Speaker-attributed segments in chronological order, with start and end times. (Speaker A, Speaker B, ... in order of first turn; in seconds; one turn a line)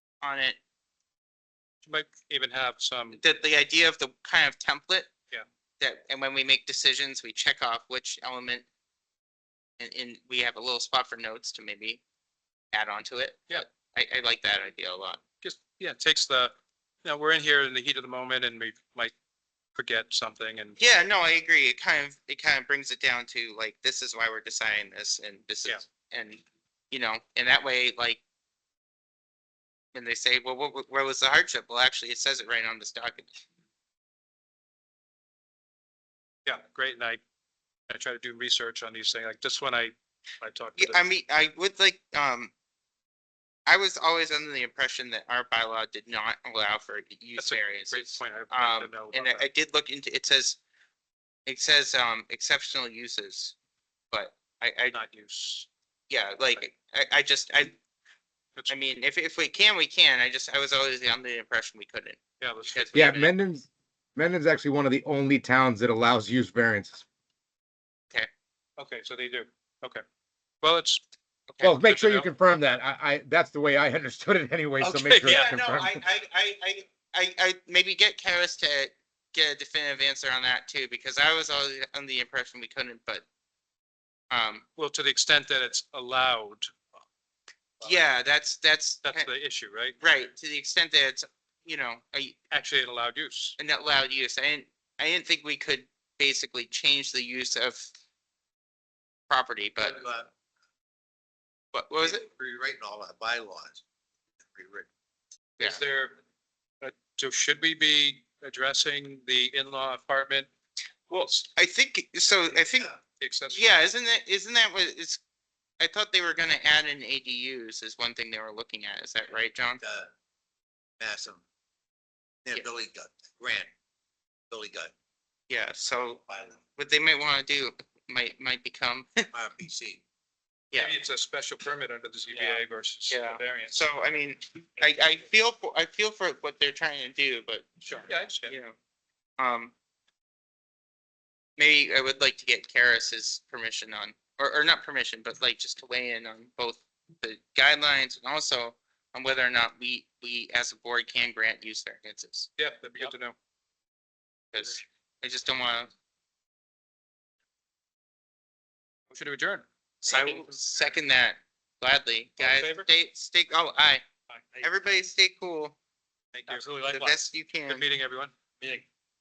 Speaker A: 0.2-0.6
Speaker B: 1.8-3.2
Speaker A: 3.2-5.1
Speaker A: 5.8-8.7
Speaker A: 9.8-12.0
Speaker A: 12.7-15.2
Speaker B: 15.4-16.5
Speaker B: 17.0-19.1
Speaker B: 19.8-20.8
Speaker A: 20.8-28.2
Speaker A: 29.9-33.4
Speaker B: 36.5-37.2
Speaker B: 37.9-41.0
Speaker A: 40.8-42.5
Speaker A: 43.7-50.6
Speaker B: 47.4-49.5
Speaker A: 51.5-53.6
Speaker A: 54.1-55.0
Speaker B: 54.9-55.7
Speaker A: 56.1-57.8
Speaker A: 58.7-63.3
Speaker B: 62.4-63.3
Speaker C: 62.9-67.0
Speaker B: 68.8-70.0
Speaker B: 70.6-71.0
Speaker C: 71.6-76.0
Speaker B: 71.8-72.3
Speaker B: 74.8-75.6
Speaker A: 75.2-83.2
Speaker A: 84.3-84.6
Speaker B: 84.8-86.7
Speaker A: 87.8-89.3
Speaker B: 89.0-90.0
Speaker A: 90.0-92.4
Speaker B: 92.5-93.6
Speaker A: 93.6-97.9
Speaker A: 99.3-100.0
Speaker D: 99.8-100.3
Speaker A: 101.7-102.2
Speaker D: 102.0-103.8
Speaker D: 104.4-104.9
Speaker B: 105.6-106.2
Speaker B: 106.8-110.5
Speaker A: 111.1-112.9
Speaker B: 113.2-113.8
Speaker A: 113.5-115.2
Speaker A: 115.8-119.8
Speaker D: 119.8-120.1
Speaker D: 121.0-121.4
Speaker D: 122.5-123.7
Speaker D: 124.5-124.9
Speaker A: 125.5-126.2
Speaker D: 126.3-126.6
Speaker A: 126.8-129.3
Speaker D: 129.3-130.0
Speaker B: 130.7-133.8
Speaker A: 132.3-137.7
Speaker B: 137.8-138.6
Speaker A: 138.4-138.8
Speaker A: 139.4-139.7
Speaker A: 141.6-153.1
Speaker B: 152.6-153.3
Speaker A: 154.5-155.9
Speaker B: 159.1-160.6
Speaker A: 160.0-164.0
Speaker B: 162.4-162.9
Speaker B: 164.3-164.7
Speaker A: 164.6-165.8
Speaker B: 166.3-168.8
Speaker A: 166.5-167.9